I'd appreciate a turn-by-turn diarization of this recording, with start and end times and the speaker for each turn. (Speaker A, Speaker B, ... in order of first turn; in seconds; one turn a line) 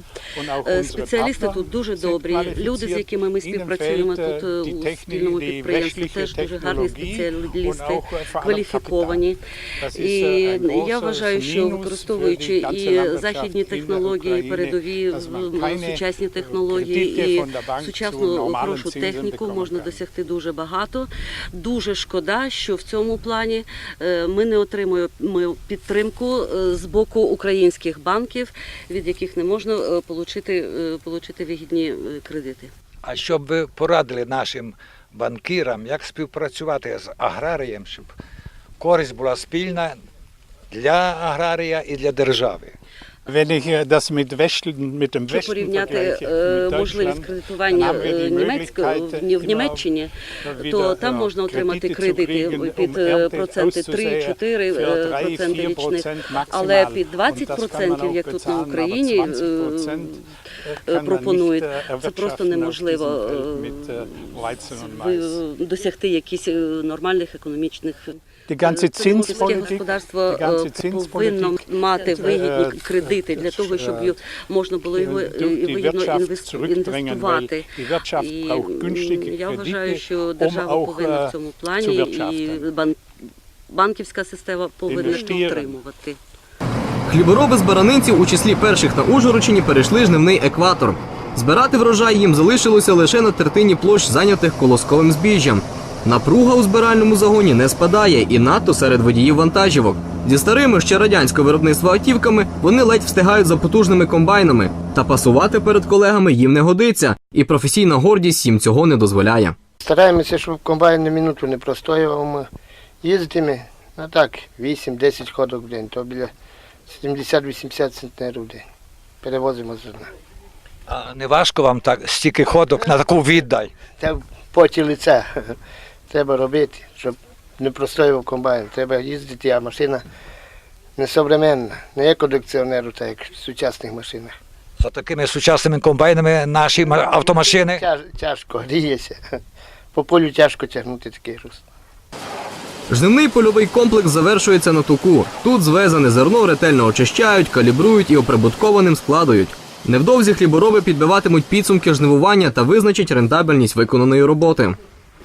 Speaker A: 0.3-9.2
Speaker B: 0.6-9.4
Speaker A: 9.8-20.0
Speaker B: 9.9-32.7
Speaker C: 33.0-38.1
Speaker C: 38.8-40.0
Speaker C: 40.7-42.8
Speaker A: 43.3-49.9
Speaker B: 45.3-60.3
Speaker A: 50.4-65.4
Speaker B: 60.9-83.0
Speaker A: 68.5-74.2
Speaker A: 75.0-82.7
Speaker B: 83.7-86.2
Speaker A: 84.9-85.8
Speaker D: 87.1-109.5
Speaker E: 109.8-112.5
Speaker E: 113.0-116.3
Speaker E: 116.9-118.6
Speaker E: 119.2-120.1
Speaker C: 120.9-123.7
Speaker E: 124.0-125.6
Speaker E: 126.1-130.0
Speaker E: 131.0-134.3
Speaker C: 134.8-137.8
Speaker E: 136.8-139.2
Speaker E: 139.9-141.6
Speaker D: 142.9-154.8